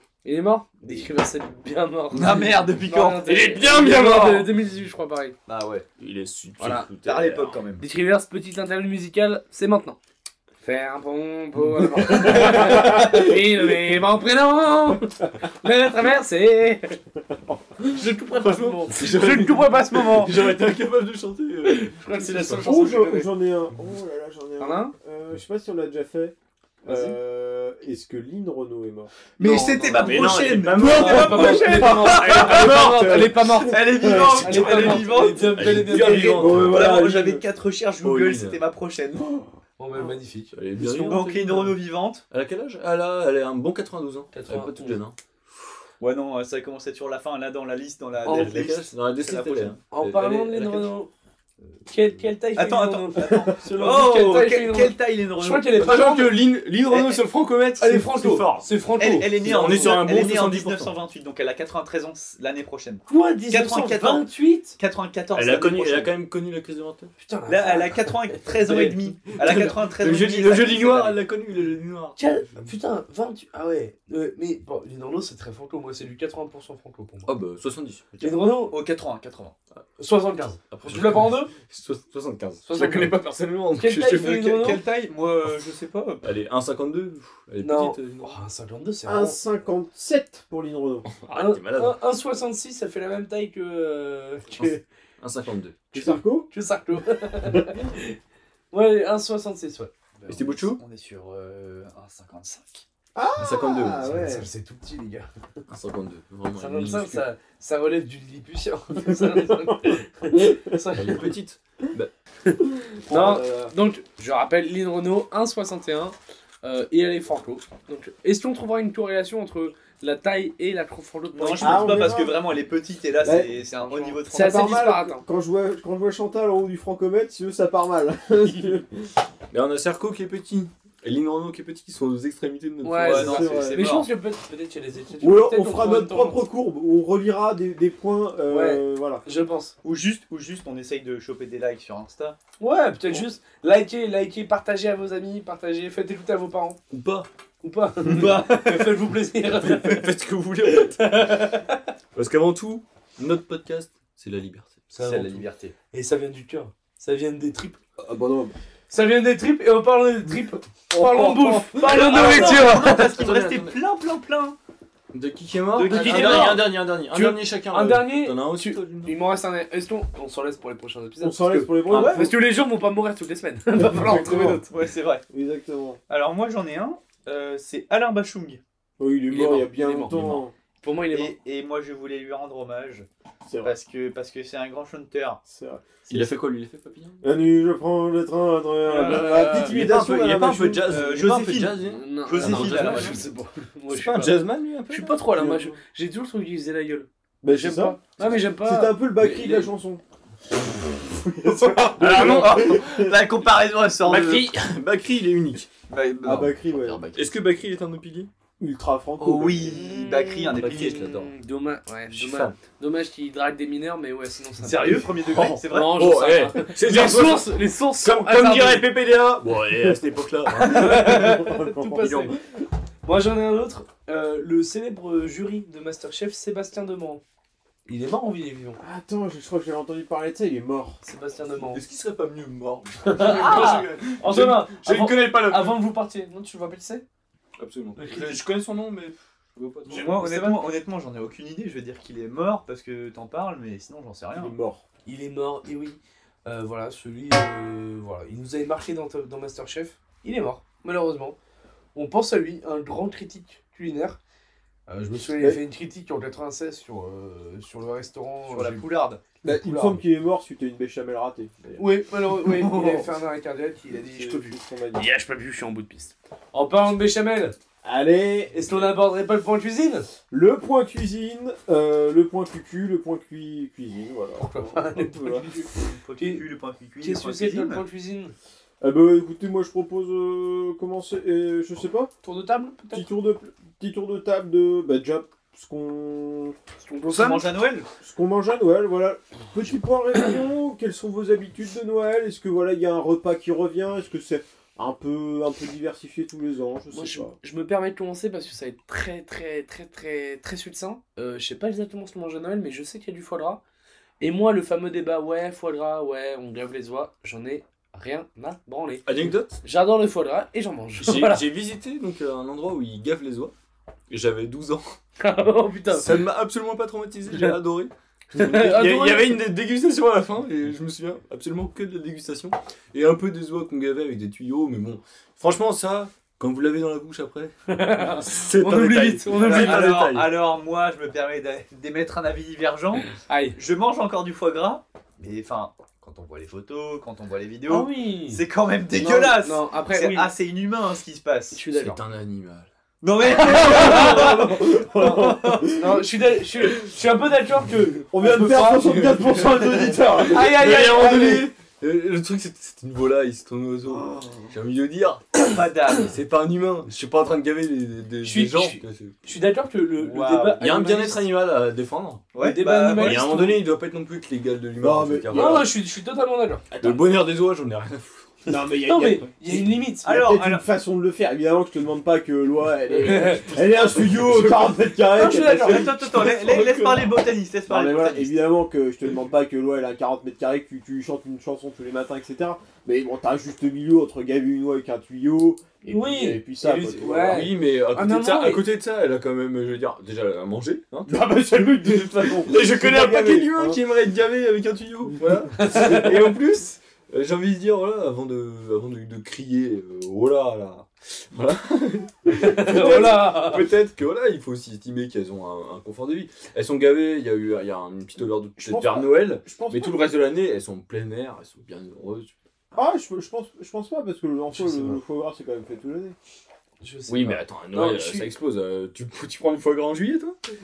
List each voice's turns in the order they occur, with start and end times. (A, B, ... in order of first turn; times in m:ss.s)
0:00.2-0:05.4 A
0:02.1-0:03.3 B
0:03.2-0:04.5 C
0:05.5-0:05.9 B
0:06.0-0:07.5 C
0:06.6-0:06.9 A
0:06.6-0:07.8 B
0:07.8-0:10.0 A
0:10.6-0:17.0 A
0:12.0-0:13.4 D
0:17.3-0:18.0 D
0:17.9-0:20.5 A
0:18.0-0:22.7 C
0:21.6-0:23.4 A
0:22.6-0:29.1 D
0:24.6-0:24.9 A
0:26.9-0:27.2 A
0:29.4-0:33.0 B
0:29.4-0:36.7 A
0:29.9-0:33.4 C
0:31.7-0:32.1 D
0:33.0-0:33.2 D
0:33.6-0:39.3 B
0:33.8-0:35.1 D
0:35.2-0:36.9 C
0:35.9-0:37.4 D
0:38.0-0:38.6 C
0:39.2-0:39.5 D
0:39.8-0:41.3 A
0:40.5-0:41.7 C
0:41.0-0:42.2 B
0:42.3-0:45.2 C
0:44.3-0:45.0 A
0:46.0-0:49.8 B
0:48.2-0:48.7 A
0:48.2-0:50.9 C
0:49.9-0:51.1 A
0:51.9-0:56.4 A
0:52.6-0:55.9 B
0:55.7-0:58.7 C
0:56.8-0:57.2 B
0:57.8-0:59.8 A
0:59.0-1:06.2 B
0:59.4-1:00.9 C
1:03.1-1:04.8 A
1:05.3-1:07.1 C
1:07.2-1:09.7 A
1:07.5-1:11.2 B
1:09.4-1:12.7 C
1:12.2-1:17.3 A
1:17.3-1:18.4 C
1:18.2-1:18.8 A
1:18.7-1:19.6 B
1:20.0-1:21.5 A
1:20.7-1:24.5 C
1:22.7-1:23.2 A
1:23.8-1:24.8 A
1:24.3-1:26.3 B
1:26.2-1:28.4 C
1:27.6-1:29.4 A
1:29.1-1:31.1 D
1:31.1-1:32.0 C
1:31.3-1:34.8 A
1:34.6-1:35.8 C
1:35.9-1:36.5 D
1:35.9-1:38.2 A
1:38.7-1:39.9 A
1:40.2-1:42.8 B
1:40.3-1:40.8 C
1:43.2-1:44.5 D
1:43.4-1:44.1 C
1:44.0-1:45.3 A
1:45.7-1:47.3 C
1:46.5-1:51.3 A
1:49.0-1:50.8 D
1:50.9-1:52.1 C
1:53.0-1:53.7 D
1:53.1-2:02.2 A
2:01.3-2:04.9 B
2:01.6-2:02.4 D
2:03.2-2:03.6 D
2:03.9-2:05.2 A
2:04.3-2:09.1 D
2:09.5-2:13.6 C
2:12.8-2:16.4 A
2:13.0-2:14.1 B
2:13.1-2:13.9 D
2:15.2-2:19.2 D
2:18.5-2:19.8 A
2:19.8-2:22.4 B
2:22.6-2:26.8 A
2:26.9-2:27.3 C
2:27.6-2:30.1 A
2:28.0-2:29.0 B
2:29.6-2:31.3 C
2:30.6-2:31.8 A
2:32.1-2:35.4 C
2:35.0-2:35.7 B
2:35.1-2:35.4 A
2:35.9-2:37.8 A
2:38.0-2:38.6 D
2:38.9-2:43.0 A
2:40.9-2:43.8 C
2:41.8-2:44.6 B
2:45.1-2:49.2 C
2:45.8-2:46.7 B
2:45.8-2:54.7 A
2:51.2-2:52.3 D
2:51.9-2:52.2 C
2:51.9-2:52.3 B
2:53.8-2:54.6 D
2:54.7-2:55.2 B
2:55.3-2:56.0 D
2:56.1-2:58.6 B
2:59.0-3:00.5 D
2:59.3-3:01.4 A
3:01.1-3:03.1 B
3:03.5-3:03.7 D
3:03.6-3:05.4 B
3:05.5-3:05.8 D
3:06.1-3:07.2 C
3:07.2-3:11.0 D
3:08.9-3:09.7 B
3:08.9-3:09.9 A
3:09.6-3:13.2 C
3:10.8-3:13.2 B
3:11.8-3:19.7 A
3:13.9-3:15.3 C
3:15.3-3:15.8 D
3:17.4-3:20.0 D
3:21.1-3:23.1 D
3:21.6-3:24.5 B
3:22.0-3:22.8 C
3:24.1-3:25.7 C
3:25.9-3:27.3 B
3:26.2-3:27.0 D
3:27.2-3:28.3 C
3:28.6-3:29.8 D
3:29.2-3:31.0 B
3:29.7-3:38.9 A
3:30.5-3:31.3 C
3:32.1-3:32.6 C
3:34.6-3:36.3 B
3:34.9-3:41.4 C
3:40.7-3:42.4 A
3:40.7-3:42.4 D
3:40.8-3:41.1 B
3:42.0-3:42.3 C
3:43.0-3:47.2 A
3:47.9-3:48.8 A
3:48.8-3:51.0 D
3:51.0-3:51.8 A
3:51.6-3:55.8 C
3:53.0-3:57.0 A
3:53.3-3:53.9 B
3:57.6-4:00.2 C
3:58.0-3:58.4 A
3:59.9-4:00.6 A
3:59.9-4:04.6 B
4:04.3-4:04.8 D
4:05.1-4:11.4 A
4:12.0-4:14.2 A
4:14.9-4:18.8 A
4:15.3-4:15.6 D
4:18.5-4:19.2 B
4:19.4-4:21.8 D
4:19.5-4:20.0 A
4:21.8-4:27.6 A
4:22.4-4:23.1 B
4:23.9-4:25.1 D
4:27.8-4:28.9 D
4:28.5-4:30.1 A
4:30.3-4:35.5 D
4:34.4-4:36.4 A
4:35.6-4:37.8 B
4:37.0-4:38.3 A
4:38.8-4:42.1 D
4:42.2-4:43.1 A
4:42.9-4:46.6 D
4:46.8-4:47.5 A
4:47.1-4:47.9 B
4:48.0-4:57.3 D
4:56.9-5:03.6 A
5:04.2-5:09.1 A
5:09.0-5:09.6 C
5:09.6-5:11.5 A
5:11.0-5:13.5 C
5:14.1-5:15.0 C
5:15.2-5:16.2 A
5:15.9-5:30.3 C
5:17.3-5:17.6 A
5:18.3-5:19.4 A
5:27.7-5:29.9 A
5:29.4-5:41.6 B
5:33.2-5:33.6 A
5:37.7-5:40.3 A
5:41.5-5:42.0 A
5:41.7-5:42.7 C
5:43.0-5:45.7 B
5:43.4-5:44.5 A
5:43.6-5:46.0 D
5:45.6-5:48.9 A
5:48.1-5:51.4 D
5:48.4-5:49.6 C
5:50.2-5:55.5 C
5:50.2-5:51.5 A
5:55.4-5:56.1 B
5:56.0-5:59.2 C
5:58.2-6:01.2 A
6:00.0-6:00.7 B
6:00.6-6:02.3 C
6:02.4-6:03.5 B
6:02.4-6:03.6 A
6:03.0-6:05.7 C
6:04.8-6:05.7 D
6:05.3-6:06.7 A
6:06.7-6:07.0 D
6:06.8-6:08.2 C
6:08.5-6:16.1 D
6:08.8-6:10.1 A
6:10.0-6:10.6 B
6:13.0-6:13.5 A
6:13.2-6:14.8 C
6:15.1-6:17.1 A
6:15.5-6:18.5 B
6:17.7-6:27.5 D
6:25.9-6:28.6 A
6:27.2-6:52.3 C
6:31.1-6:33.8 D
6:35.6-6:36.2 A
6:42.4-6:43.7 A
6:48.6-6:50.0 D
6:52.8-6:56.2 D
6:54.5-6:55.0 A
6:56.8-6:58.3 A
6:57.1-7:00.4 C